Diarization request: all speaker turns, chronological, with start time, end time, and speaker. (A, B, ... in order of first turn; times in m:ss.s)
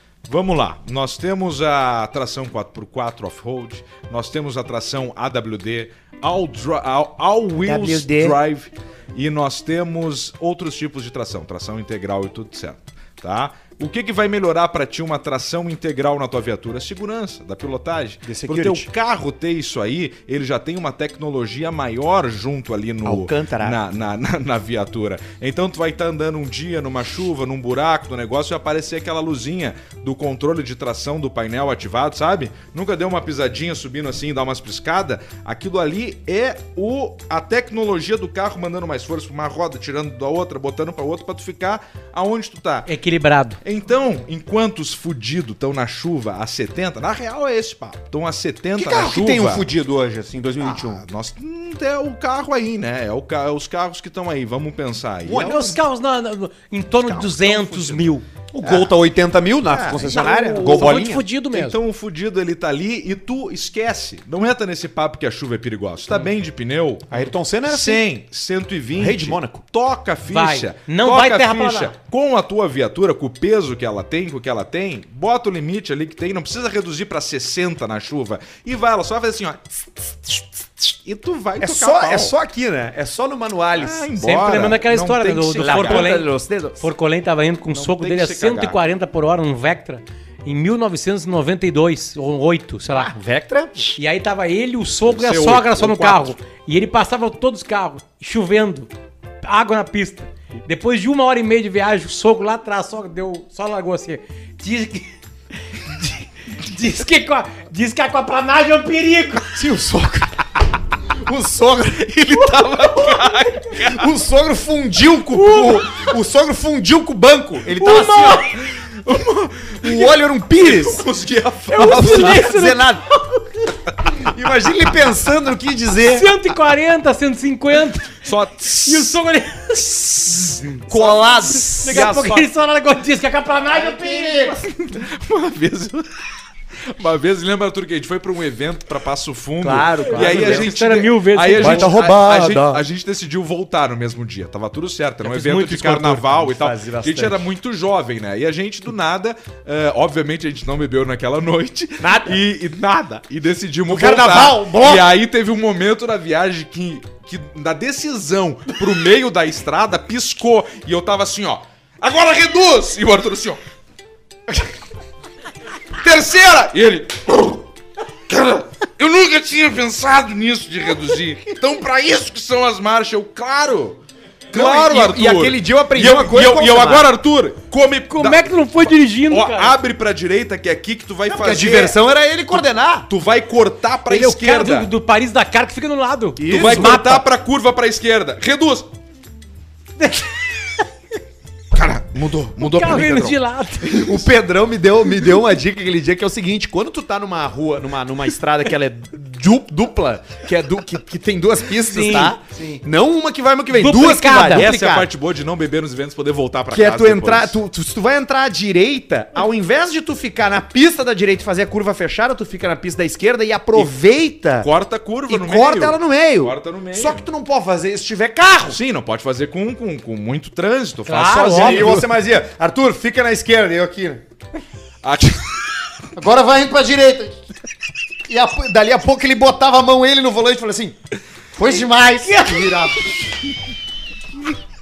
0:00.3-0:42.9 A
0:07.6-0:08.4 B
0:18.2-0:18.9 B
0:23.0-0:23.8 B
0:42.8-0:43.6 C
0:43.6-0:49.6 A
0:48.8-0:51.0 B
0:50.6-0:55.5 A
0:55.2-0:55.8 B
0:55.3-0:58.2 C
0:57.0-0:58.1 A
0:58.5-1:01.2 B
0:58.6-0:58.9 A
0:59.8-1:01.0 A
1:00.0-1:01.8 C
1:01.5-1:22.3 A
1:07.1-1:08.0 B
1:09.0-1:09.6 B
1:10.3-1:11.9 C
1:21.6-1:24.1 B
1:23.7-1:26.1 A
1:24.2-1:33.1 C
1:25.6-1:26.8 B
1:27.7-1:28.8 A
1:32.9-1:33.9 B
1:33.9-1:38.9 C
1:35.1-1:36.4 A
1:39.4-1:45.1 C
1:45.7-1:49.6 C
1:49.5-1:50.4 B
1:51.2-1:58.5 B
1:52.3-1:54.1 A
1:55.3-1:55.8 C
1:57.8-1:58.5 C
1:58.5-2:02.5 A
1:59.8-2:01.0 B
2:01.7-2:03.4 C
2:01.8-2:03.1 B
2:04.1-2:06.3 B
2:06.0-2:08.2 C
2:08.2-2:09.2 A
2:08.8-2:10.8 C
2:10.9-2:12.1 B
2:11.5-2:14.5 C
2:11.9-2:12.5 A
2:13.7-2:14.6 B
2:14.4-2:16.1 A
2:16.9-2:43.6 A
2:19.6-2:20.7 B
2:19.7-2:22.0 C
2:21.5-2:22.8 B
2:25.2-2:26.2 C
2:25.7-2:27.4 B
2:32.0-2:32.4 B
2:33.9-2:35.1 B
2:46.0-2:47.6 A
2:48.3-2:54.0 A
2:54.5-2:58.5 A
2:54.5-2:57.1 B
2:58.1-2:59.7 C
2:59.3-3:02.0 A
3:01.3-3:03.1 B
3:02.5-3:04.9 A
3:04.1-3:07.2 C
3:06.4-3:07.2 B
3:06.5-3:08.9 A
3:10.0-3:10.8 C
3:11.7-3:13.4 A
3:12.6-3:14.2 C
3:13.8-3:25.1 B
3:21.8-3:22.8 C
3:23.7-3:24.6 C
3:24.5-3:27.6 A
3:26.7-3:34.7 B
3:34.6-3:37.3 A
3:35.3-3:38.8 B
3:38.7-3:42.1 A
3:41.0-3:42.0 C
3:41.5-3:44.2 B
3:45.0-3:45.4 A
3:46.1-3:47.4 B
3:48.3-3:51.0 B
3:51.5-3:53.0 B
3:52.2-3:52.9 C